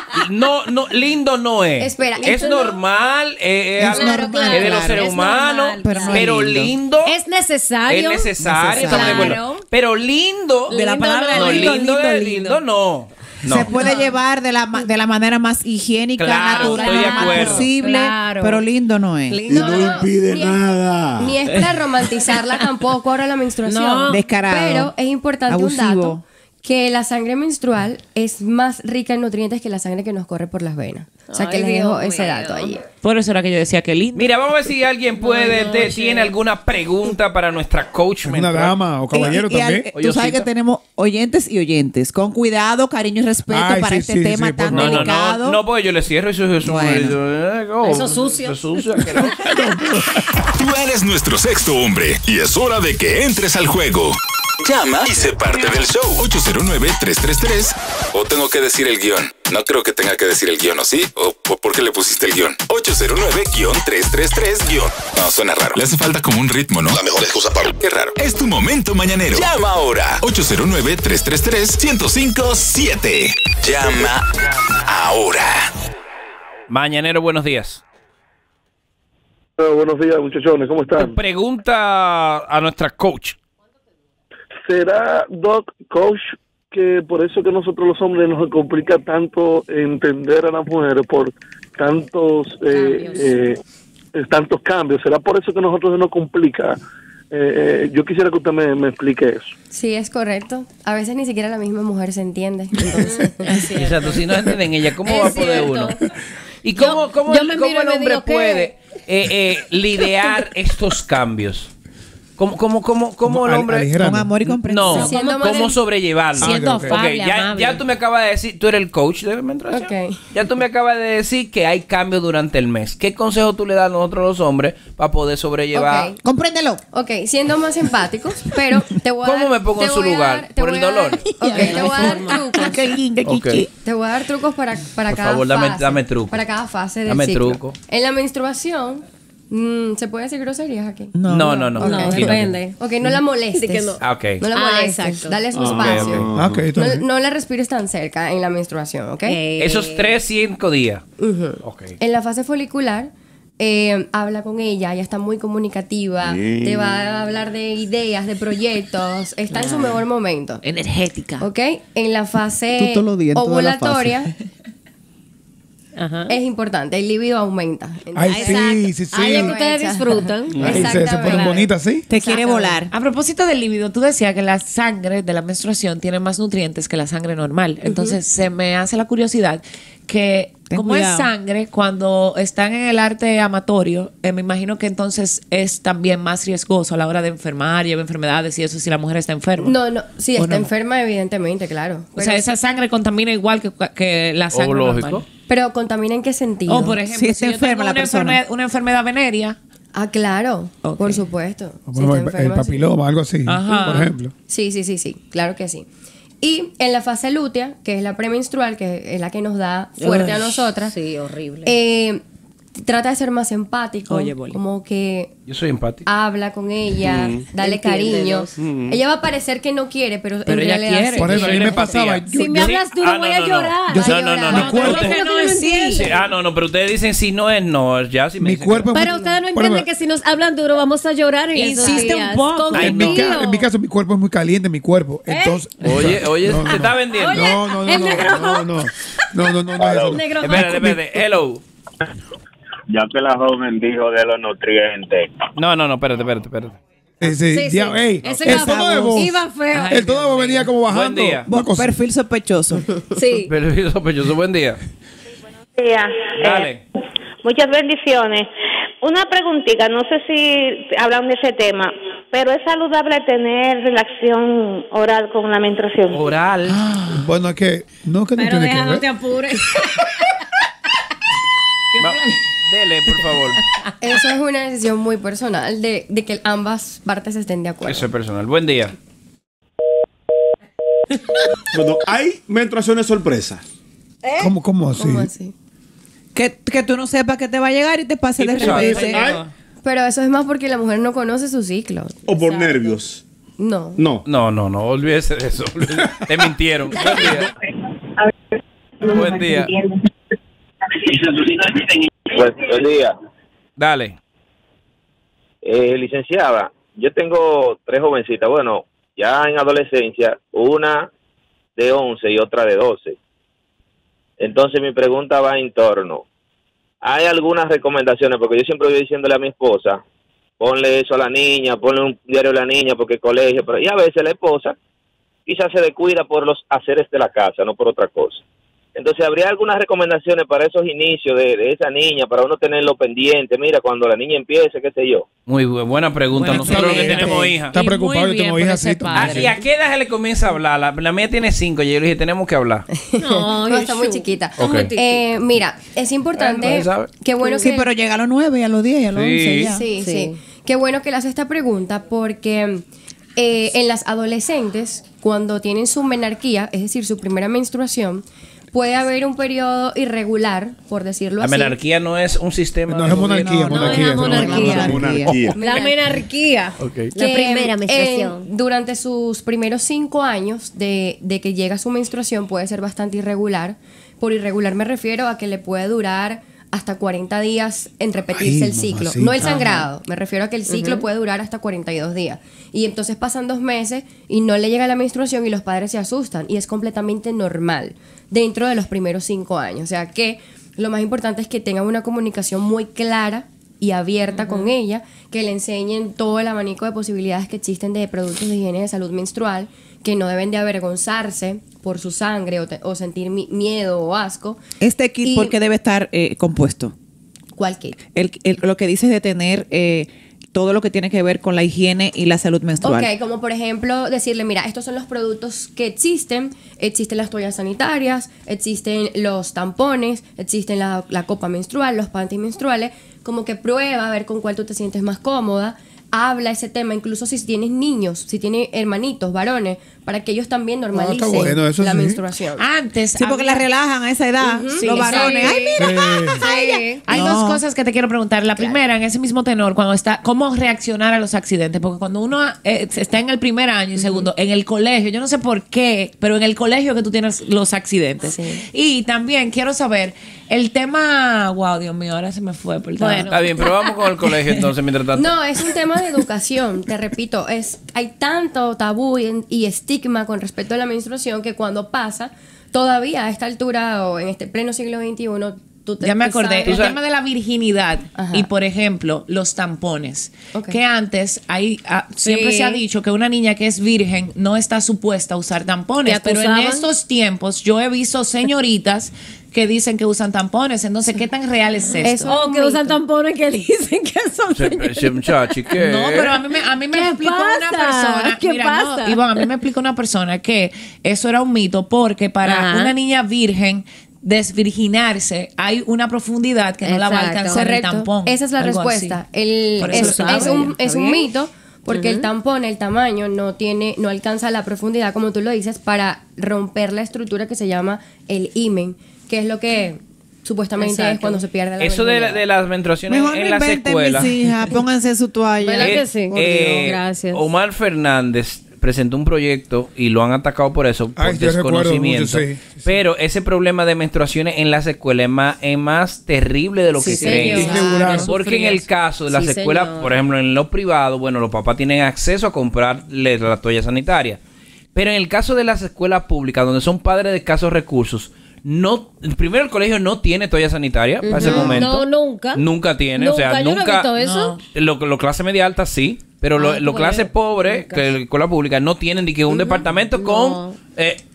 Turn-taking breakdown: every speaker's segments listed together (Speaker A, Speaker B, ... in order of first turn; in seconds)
Speaker A: 0.1-7.2, 7.9-13.8, 16.2-17.7, 34.1-38.8, 40.0-40.5, 44.7-49.4, 76.7-77.8, 81.0-83.4, 103.7-106.0, 106.6-111.7, 112.4-113.9, 114.7-126.1, 129.2-131.3, 133.2-133.6, 135.1-136.4, 137.1-137.8, 141.3-142.5, 144.0-144.4, 145.7-146.3, 149.6-151.1, 151.6-152.0, 194.5-195.2, 215.5-216.1, 221.3-225.2, 225.9-228.9, 232.7-233.2, 235.8-237.5, 240.4-241.6, 245.6-246.8, 250.9-251.5, 253.5-254.8, 256.4-256.8, 266.1-266.8, 272.0-273.6, 277.9-278.9, 288.4-289.0, 294.2-297.5, 299.0-299.8, 303.8-304.2, 335.5-337.8, 339.1-342.9, 344.6-344.9, 346.4-347.1, 349.1-349.8, 361.4-364.4, 365.2-365.5, 366.8-367.1, 453.3-455.4, 466.6-467.0, 484.6-486.4, 511.8-514.3, 515.8-534.4, 534.9-544.1, 544.7-551.2
Speaker B: 1.8-2.7, 19.5-20.6, 21.2-32.9, 99.7-103.7, 114.9-115.8, 119.7-120.2, 125.7-126.2, 126.9-132.9, 133.8-141.2, 141.8-149.4, 151.2-160.6, 161.4-164.3, 166.3-172.8, 177.8-178.2, 189.6-192.5, 195.5-197.0, 199.9-202.9, 203.8-205.9, 206.4-210.9, 211.7-212.2, 212.8-215.3, 216.1-221.8, 224.0-225.2, 274.0-278.1, 285.0-285.5, 289.8-292.9, 293.6-294.0, 343.0-347.9, 349.7-352.8, 353.4-361.8, 365.5-366.0, 367.1-404.6, 405.2-405.5, 407.6-408.0, 412.8-432.6, 434.4-435.3, 438.6-438.8, 448.3-448.6, 455.1-466.9, 468.1-468.5, 470.5-470.8, 482.0-483.0, 497.5-512.4
Speaker C: 2.2-2.7, 3.9-6.3, 7.0-9.6, 10.7-12.0, 13.8-14.1, 16.5-18.6, 19.3-20.1, 23.7-24.2, 31.3-32.8, 35.2-36.3, 47.8-49.0, 92.7-93.1, 103.0-103.9, 105.0-106.0, 106.8-108.7, 115.0-115.6, 131.5-132.8, 141.8-142.8, 143.5-144.0, 144.5-145.4, 149.3-150.2, 166.0-166.3, 168.3-171.6, 210.9-211.7, 217.6-218.5, 222.3-226.1, 228.9-233.7, 235.3-235.6, 237.1-238.7, 240.1-240.7, 247.5-250.1, 253.1-253.5, 268.4-270.1, 343.2-345.2, 347.4-347.7, 349.9-350.4, 363.7-365.0, 365.6-368.4, 380.7-381.1, 434.7-437.1, 453.0-453.6, 472.2-472.8, 476.1-476.9, 482.2-485.5, 486.9-489.5, 492.4-492.9, 496.8-497.6, 499.8-501.3, 501.9-502.3, 510.8-511.4, 515.6-517.4, 527.0-530.2, 541.2-542.6, 543.2-544.6, 546.6-548.1, 549.5-550.8
Speaker D: 3.8-5.1, 5.8-6.7, 8.4-9.4, 13.4-19.4, 24.1-24.9, 25.5-26.2, 39.1-45.6, 46.7-47.1, 114.0-115.1, 126.2-126.8, 131.4-133.7, 141.1-142.3, 162.8-164.3, 172.1-172.9, 180.7-181.3, 197.1-198.4, 248.4-249.3, 251.5-252.9, 286.4-289.2, 347.6-349.9, 363.7-365.3, 404.8-406.9, 408.1-413.1, 433.2-436.0, 437.1-437.6, 513.1-516.0
Speaker E: 10.7-12.6, 33.0-34.4, 116.4-117.8, 159.5-160.0, 160.6-161.5, 172.9-189.8, 190.4-190.7, 192.2-195.2, 196.7-199.6, 200.8-201.3, 203.4-204.1, 210.0-210.6, 214.1-214.6, 220.4-221.8, 224.8-226.1, 231.6-233.3, 249.7-250.7, 266.7-267.2, 288.6-289.5, 336.4-339.6, 379.4-379.8, 432.6-433.6, 434.9-435.6, 436.2-453.3, 454.3-454.7, 466.0-482.3, 485.8-499.2, 499.8-500.7, 527.0-528.8, 541.4-541.9, 544.1-544.6
Speaker F: 19.5-21.4, 145.5-146.7, 156.4-156.8, 217.0-217.4, 281.7-283.6, 288.6-289.4, 292.3-293.2, 294.0-294.3, 364.3-365.6
Speaker G: 38.2-39.9, 43.5-45.1, 49.5-50.3, 113.2-114.6, 116.4-117.0, 146.3-147.1, 168.1-169.6, 170.6-172.1, 201.9-204.3, 221.2-222.8, 223.9-225.1, 228.4-229.9, 232.8-241.1, 247.2-251.9, 267.1-269.1, 284.4-285.3, 336.3-339.5, 362.9-365.2, 378.4-379.7, 430.9-432.2, 435.8-436.4, 521.2-522.9, 527.5-528.3
Speaker H: 50.6-74.3, 74.9-75.5
Speaker I: 79.6-81.2, 84.7-93.6, 94.2-96.8, 97.3-99.5
Speaker J: 239.8-240.2, 242.9-245.3, 302.3-303.1, 305.6-311.1, 311.8-313.2, 314.4-316.2, 317.0-320.0, 320.6-324.8, 325.5-328.4, 329.0-335.3
Speaker K: 255.8-256.7, 257.4-258.5, 259.0-266.2